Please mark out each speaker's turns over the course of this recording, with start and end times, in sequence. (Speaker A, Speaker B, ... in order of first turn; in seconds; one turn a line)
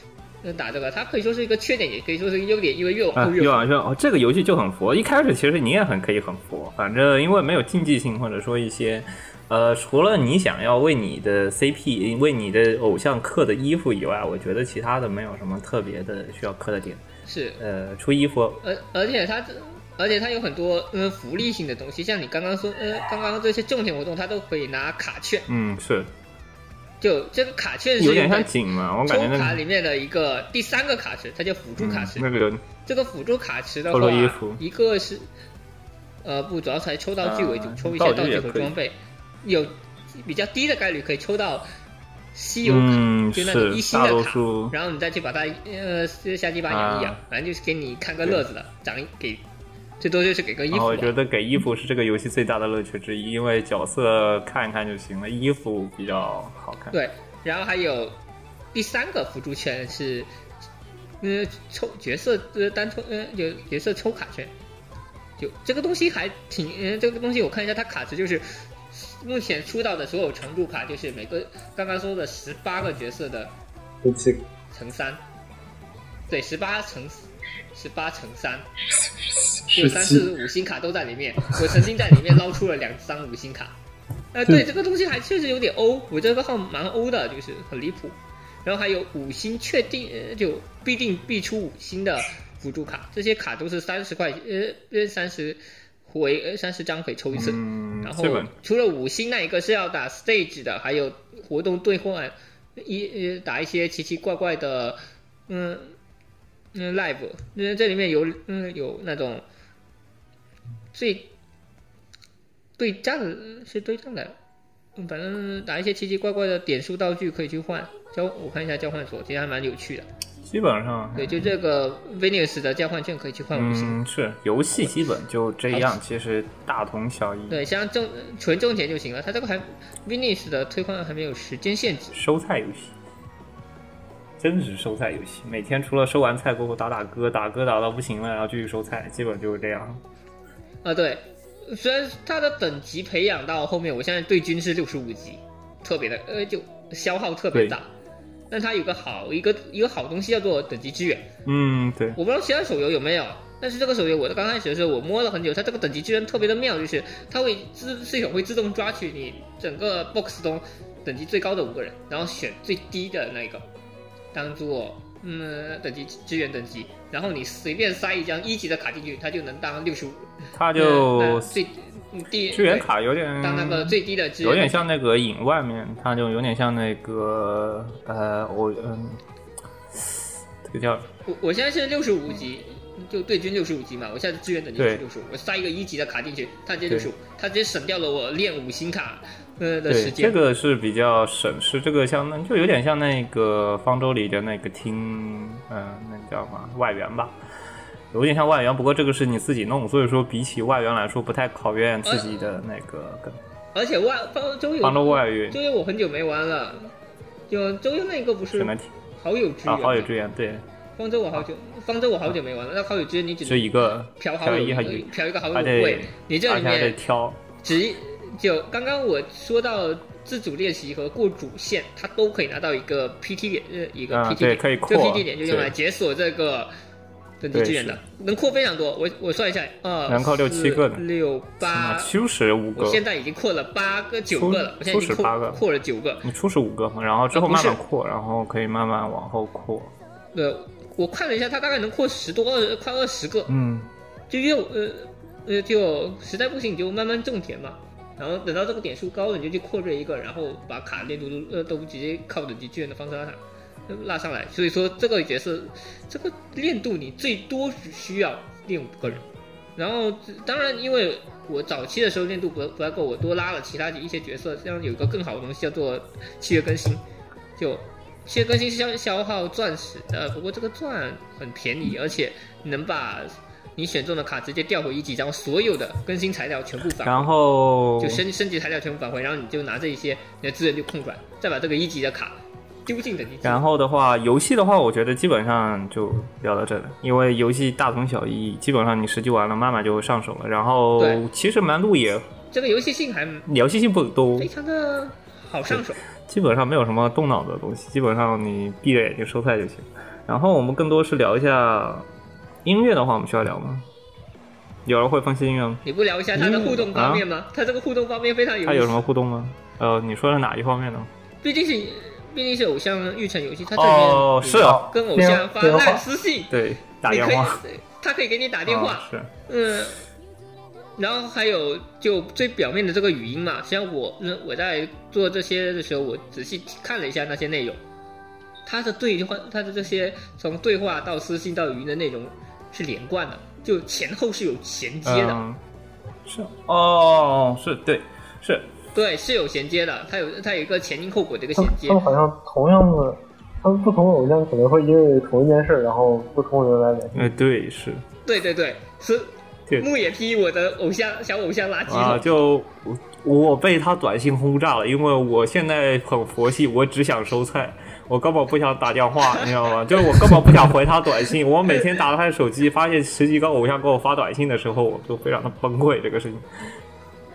Speaker A: 0.4-3.7
Speaker B: 3.2-17.0
Speaker A: 17.3-17.6
Speaker B: 17.6-18.6
Speaker A: 18.6-25.5
Speaker B: 25.5-26.1
Speaker A: 27.0-28.5
Speaker B: 28.0-29.6
Speaker A: 29.1-32.2
Speaker B: 31.8-32.6
Speaker A: 32.9-35.3
Speaker B: 33.9-34.6
Speaker A: 36.2-41.7
Speaker B: 37.2-38.8
Speaker A: 42.4-49.4
Speaker B: 42.6-44.8
Speaker B: 46.7-47.2
Speaker A: 50.0-51.1
Speaker B: 50.7-57.0
Speaker A: 56.9-58.2
Speaker A: 58.7-60.3
Speaker A: 61.2-64.5
Speaker A: 65.4-73.5
Speaker C: 74.0-74.4
Speaker A: 74.7-75.2
Speaker A: 76.3-78.7
Speaker C: 79.4-80.3
Speaker A: 79.7-83.8
Speaker A: 84.3-106.0
Speaker B: 97.3-98.5
Speaker A: 106.7-109.4
Speaker A: 110.9-111.3
Speaker A: 112.8-114.4
Speaker A: 115.0-120.1
Speaker B: 120.5-121.5
Speaker A: 121.2-124.0
Speaker B: 123.5-127.6
Speaker A: 125.7-126.0
Speaker A: 127.5-132.2
Speaker B: 132.1-132.9
Speaker B: 134.4-140.0
Speaker A: 140.8-147.9
Speaker A: 148.5-151.3
Speaker B: 151.5-152.2
Speaker A: 152.2-163.7
Speaker A: 164.3-172.9
Speaker B: 170.5-171.6
Speaker B: 172.5-179.2
Speaker A: 173.4-174.9
Speaker B: 180.7-181.1
Speaker A: 181.3-190.4
Speaker B: 184.8-185.0
Speaker B: 189.9-197.4
Speaker B: 198.1-203.4
Speaker A: 202.1-202.6
Speaker A: 203.8-206.9
Speaker B: 204.8-205.6
Speaker A: 207.5-210.1
Speaker B: 208.5-208.9
Speaker B: 209.7-210.6
Speaker A: 211.0-217.0
Speaker B: 213.4-217.4
Speaker A: 217.6-226.7
Speaker B: 224.1-225.7
Speaker A: 227.4-232.1
Speaker B: 227.5-228.0
Speaker B: 230.1-231.0
Speaker B: 231.6-233.0
Speaker A: 232.8-236.2
Speaker B: 234.3-235.6
Speaker B: 236.2-239.9
Speaker A: 237.3-237.8
Speaker A: 240.3-243.5
Speaker B: 243.5-243.9
Speaker A: 244.3-259.2
Speaker A: 259.8-267.0
Speaker A: 267.6-277.3
Speaker B: 277.0-278.2
Speaker A: 278.0-283.6
Speaker B: 283.4-292.3
Speaker A: 291.0-291.2
Speaker A: 292.5-293.5
Speaker B: 293.5-294.5
Speaker A: 294.4-296.0
Speaker B: 295.7-302.1
Speaker B: 302.6-303.9
Speaker B: 304.9-305.8
Speaker A: 305.9-309.0
Speaker B: 306.3-307.2
Speaker B: 308.6-311.1
Speaker A: 311.4-316.5
Speaker B: 313.7-314.9
Speaker C: 315.1-316.1
Speaker B: 316.5-317.6
Speaker A: 317.1-320.0
Speaker B: 318.7-319.3
Speaker A: 321.0-327.8
Speaker A: 328.7-335.4
Speaker B: 335.1-335.6
Speaker B: 336.3-338.7
Speaker A: 338.9-342.0
Speaker C: 341.6-347.3
Speaker B: 347.1-348.0
Speaker A: 348.2-352.3
Speaker B: 351.9-366.4